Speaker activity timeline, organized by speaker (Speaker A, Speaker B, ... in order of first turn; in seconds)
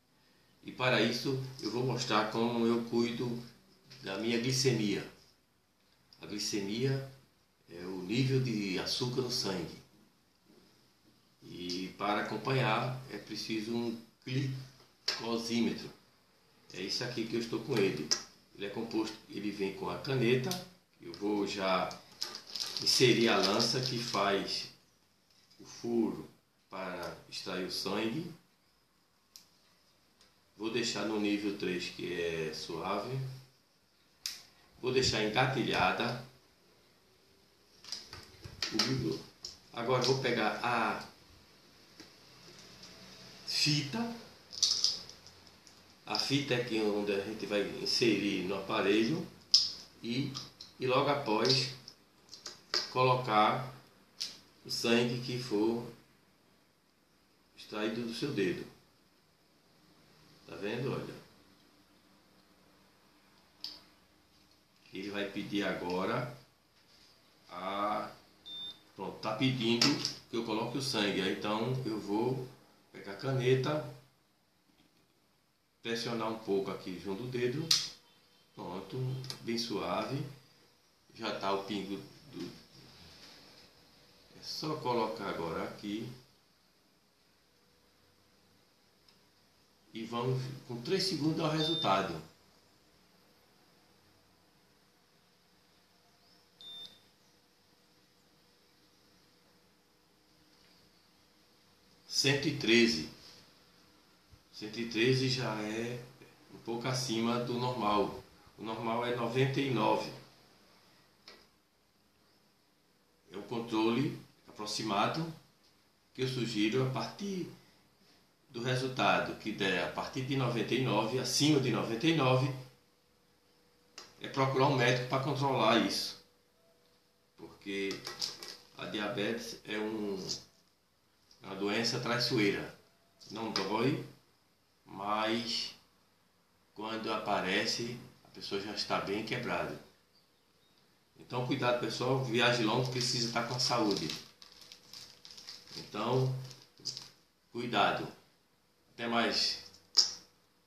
Speaker A: 0.6-3.4, 4.0-5.1, 6.2-7.1, 7.7-9.8, 11.4-15.9, 16.7-22.0, 22.8-24.7, 25.6-28.3, 30.6-33.3, 34.8-36.2, 38.7-41.1, 43.5-44.2, 46.0-49.3, 50.0-51.7, 52.9-53.8, 54.6-55.9, 57.5-58.7, 60.5-61.2, 64.9-66.4, 67.5-68.1, 68.9-73.9, 75.8-77.9, 78.5-80.3, 81.1-82.6, 84.3-86.1, 89.9-92.2, 102.1-103.1, 104.5-110.2, 113.3-115.3, 116.1-117.5, 118.5-122.5, 124.2-126.2, 127.4-128.0, 128.7-130.4, 131.4-134.1, 134.8-135.8, 136.7-139.8, 141.2-144.2, 145.7-146.4, 147.5-148.1, 148.9-149.6